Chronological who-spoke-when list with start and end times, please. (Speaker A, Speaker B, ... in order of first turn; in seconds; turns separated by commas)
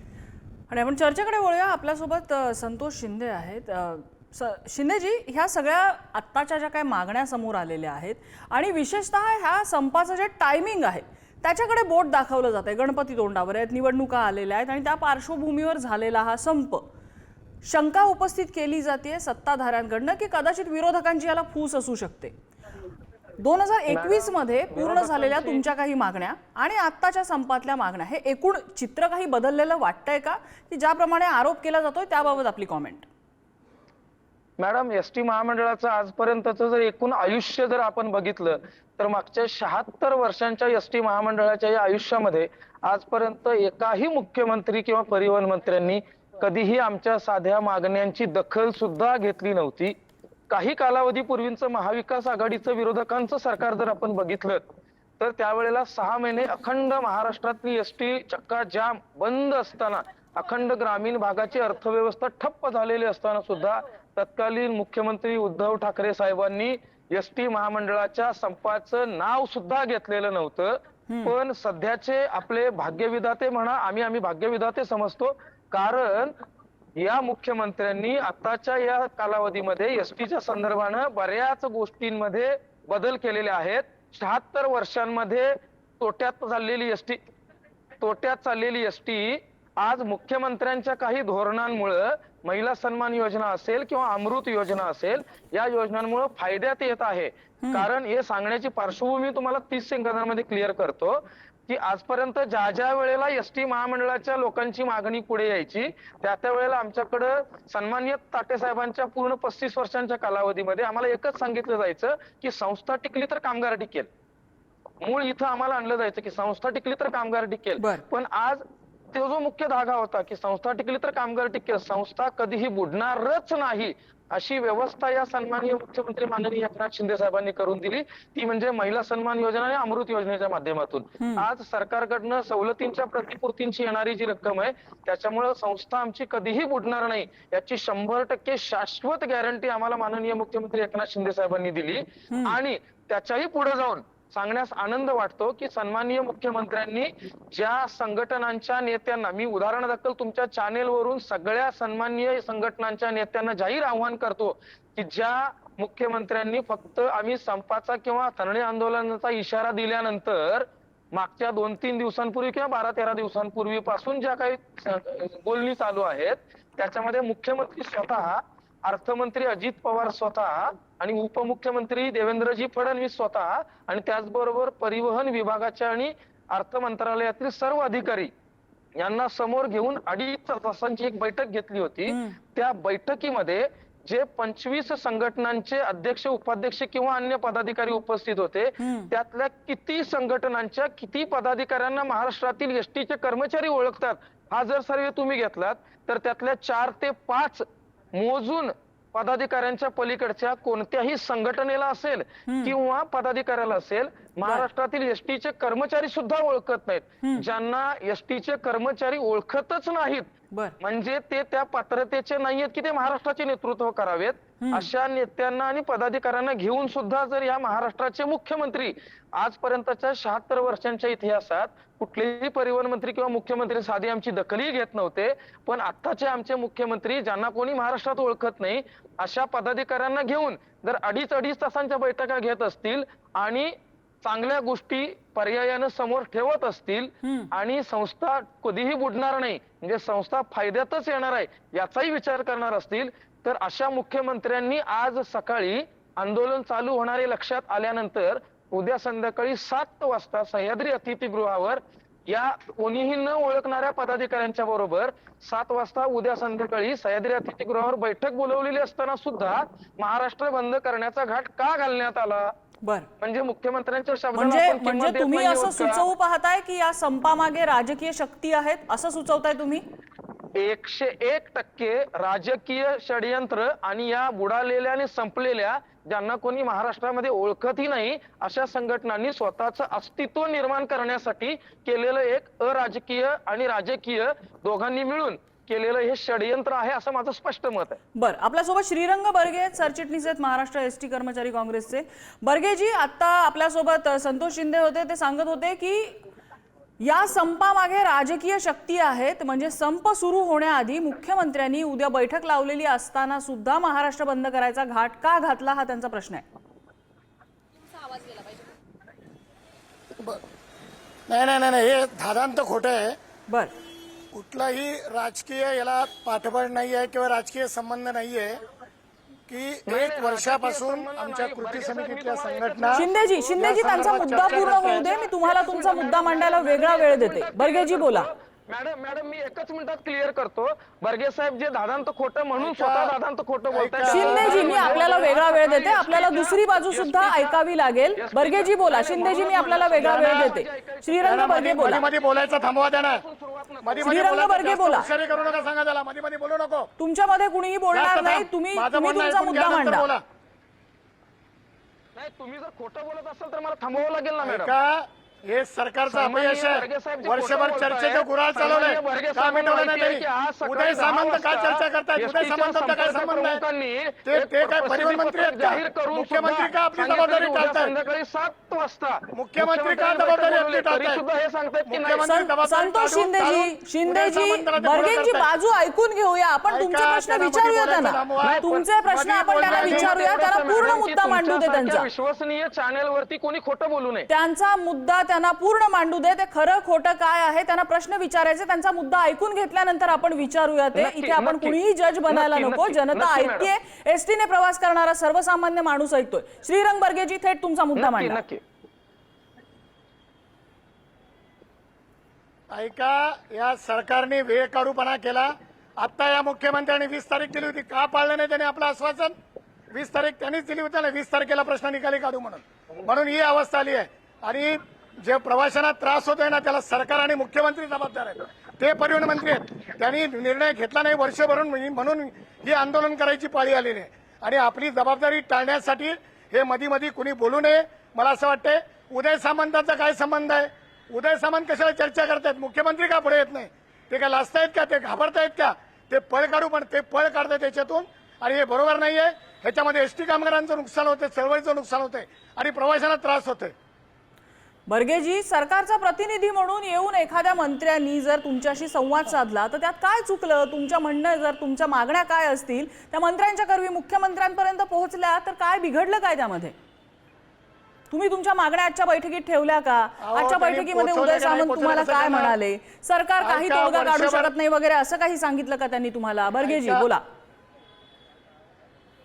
Speaker A: 0.7-16.9, Speaker A: 17.6-22.3, Speaker A: 23.4-33.1, Speaker B: 23.9-25.6, Speaker B: 34.6-49.9, Speaker B: 50.5-54.6, Speaker B: 55.2-76.4, Speaker A: 71.1-71.3, Speaker B: 77.0-87.2, Speaker B: 88.0-114.1, Speaker B: 115.0-178.3, Speaker A: 131.2-131.4, Speaker A: 142.3-142.6, Speaker B: 178.9-210.3, Speaker A: 182.1-182.4, Speaker A: 188.8-189.1, Speaker A: 202.5-202.7, Speaker B: 210.8-262.5, Speaker A: 214.6-214.9, Speaker A: 237.2-237.5, Speaker A: 262.8-263.1, Speaker B: 263.2-266.0, Speaker A: 264.3-269.8, Speaker B: 270.5-288.0, Speaker A: 288.1-296.2, Speaker A: 297.0-306.4, Speaker C: 310.1-310.4, Speaker C: 311.3-313.2, Speaker C: 314.3-318.6, Speaker C: 319.5-323.0, Speaker B: 319.9-337.6, Speaker A: 322.9-328.3, Speaker C: 323.6-325.1, Speaker C: 332.6-333.1, Speaker C: 333.7-335.0, Speaker A: 334.1-342.0, Speaker B: 338.1-345.6, Speaker C: 340.0-340.5, Speaker C: 341.2-343.2, Speaker C: 343.8-346.9, Speaker A: 344.0-345.1, Speaker A: 347.0-350.1, Speaker C: 347.9-350.2, Speaker B: 352.1-354.7, Speaker C: 354.4-363.6, Speaker B: 356.1-372.3, Speaker C: 364.2-367.9, Speaker C: 369.3-371.2, Speaker C: 371.8-375.5, Speaker A: 372.3-382.1, Speaker C: 376.7-380.1, Speaker B: 378.4-378.9, Speaker B: 379.6-384.3, Speaker A: 384.3-398.4, Speaker B: 390.9-391.8, Speaker B: 392.3-393.7, Speaker B: 397.9-398.6, Speaker C: 402.7-409.4, Speaker C: 409.9-443.7, Speaker A: 444.9-456.7, Speaker A: 458.1-467.2, Speaker C: 460.2-462.6, Speaker C: 463.4-464.5, Speaker C: 466.6-467.1